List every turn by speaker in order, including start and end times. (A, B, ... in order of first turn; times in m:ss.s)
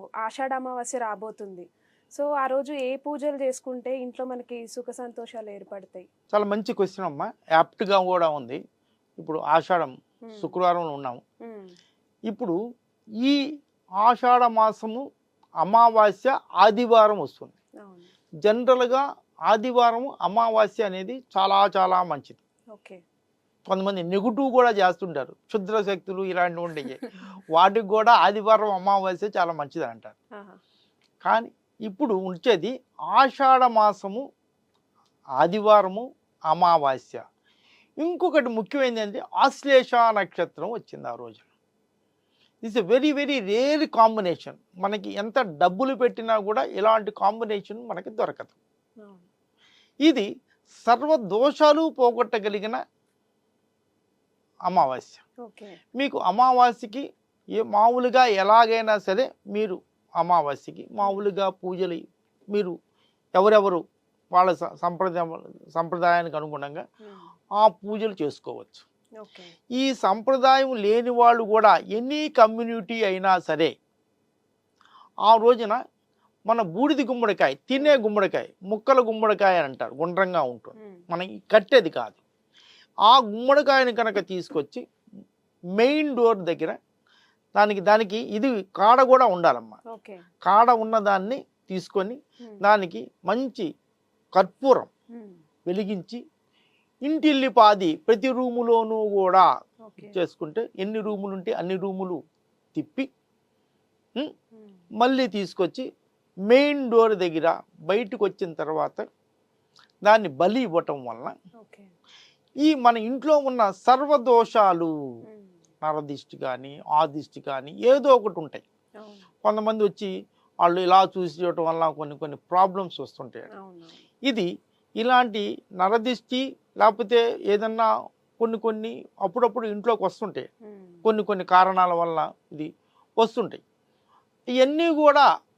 0:00.2-0:06.0 A
0:06.3-0:08.6 B
0:09.2-0:11.2 B
0:10.3-0:10.5 A
0:11.4-0:11.7 A
0:12.3-0:12.6 B
0:14.0-0:15.0 B
0:15.6-0:17.5 B
0:17.8-0:18.1 A
0:18.4-0:22.4 B
0:22.7-0:23.0 A
0:23.7-0:30.1 B
0:31.2-0:34.2 B
0:35.4-0:37.2 B
0:38.0-0:41.4 B
0:42.6-0:48.6 B
0:50.8-0:52.8 B
0:54.7-0:55.2 B
0:55.4-0:55.8 A
0:56.0-0:57.0 B
0:57.6-1:02.0 B
1:03.3-1:03.8 B
1:04.3-1:06.8 B
1:07.0-1:07.3 A
1:07.6-1:08.8 B
1:09.2-1:09.5 A
1:09.8-1:13.7 B
1:15.3-1:15.8 B
1:16.5-1:22.2 B
1:23.1-1:24.8 B
1:25.8-1:26.8 B
1:27.6-1:29.8 B
1:29.9-1:30.2 A
1:30.4-1:33.7 B
1:34.4-1:34.9 B
1:35.1-1:35.4 A
1:35.6-1:36.2 B
1:37.1-1:39.5 B
1:39.8-1:40.2 A
1:40.0-1:42.2 B
1:42.8-1:43.1 B
1:45.0-1:45.8 B
1:46.5-1:49.0 B
1:50.0-1:51.3 B
1:51.6-1:51.9 A
1:52.6-1:54.9 B
1:55.8-1:58.6 B
1:59.0-1:59.2 A
1:59.4-2:00.1 B
2:00.6-2:03.5 B
2:03.6-2:04.0 A
2:05.0-2:07.9 B
2:08.4-2:10.5 B
2:10.6-2:11.0 A
2:11.0-2:12.7 B
2:13.2-2:13.6 B
2:14.6-2:15.2 B